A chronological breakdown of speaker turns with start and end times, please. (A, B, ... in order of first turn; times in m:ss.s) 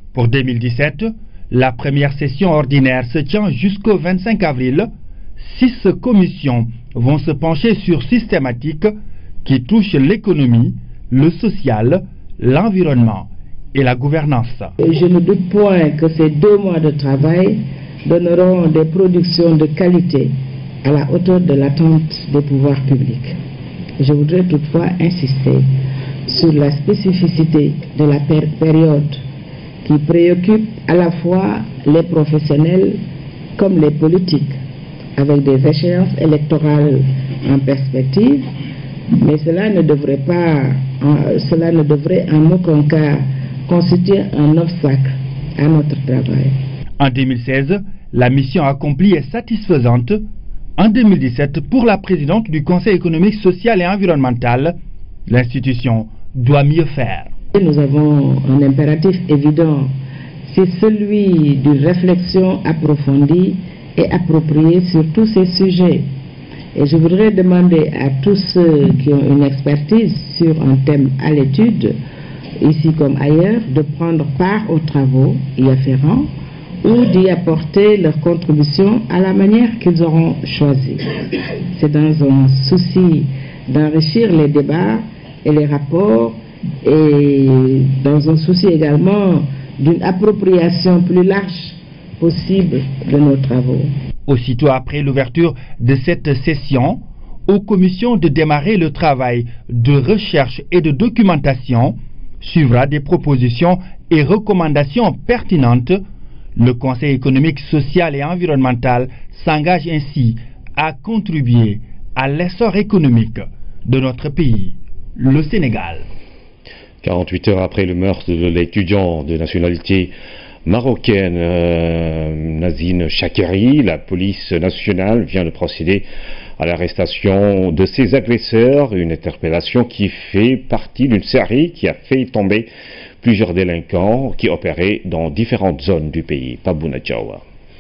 0:00.1-0:14.7 A
0:14.8-0:23.4 B
0:24.0-0:25.7 B
0:26.3-0:29.2 B
0:29.8-0:33.0 B
0:33.6-0:34.6 B
0:35.2-0:38.5 B
0:39.1-0:46.6 B
0:47.0-0:50.3 A
0:50.8-0:54.8 A
0:55.3-0:57.3 A
0:57.5-1:06.1 B
1:06.8-1:12.0 B
1:12.6-1:16.3 B
1:16.8-1:21.1 B
1:21.7-1:34.0 B
1:34.3-1:46.0 A
1:46.6-1:56.1 A
1:57.0-2:00.1 C
2:00.6-2:06.1 C
2:06.6-2:12.7 C
2:13.2-2:17.4 C